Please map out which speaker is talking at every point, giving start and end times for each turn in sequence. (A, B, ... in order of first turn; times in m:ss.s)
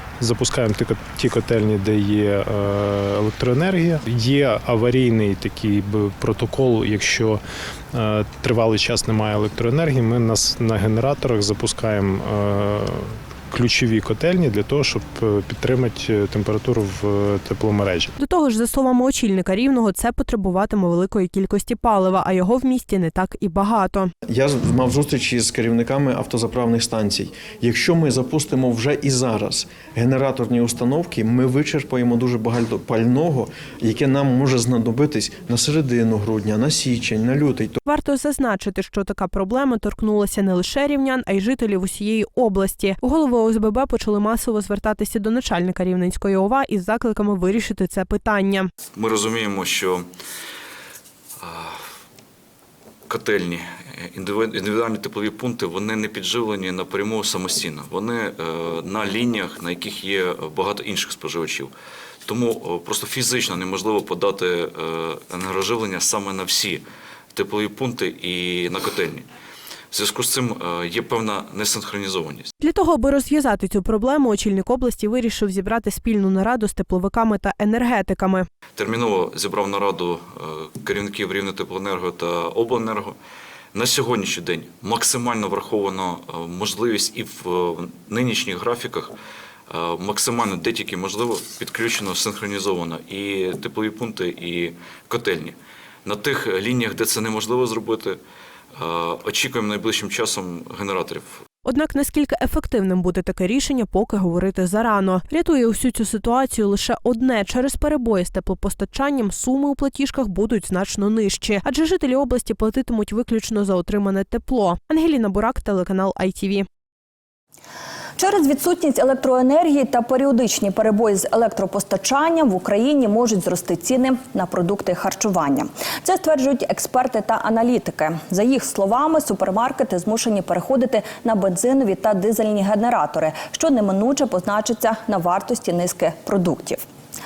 0:00.2-0:18.1 A
0:18.2-0:24.1 B
0:24.3-0:37.8 C
0:37.8-0:48.7 B
0:48.9-0:50.0 D
0:51.4-0:51.8 D
0:53.1-1:01.7 D
1:02.2-1:06.8 D
1:07.3-1:09.2 D
1:09.9-1:12.5 D
1:12.6-1:18.5 B
1:18.8-1:23.2 D
1:23.7-1:29.1 D
1:29.7-1:38.2 D
1:38.8-1:41.4 D
1:41.6-1:56.7 B
1:58.2-2:16.8 E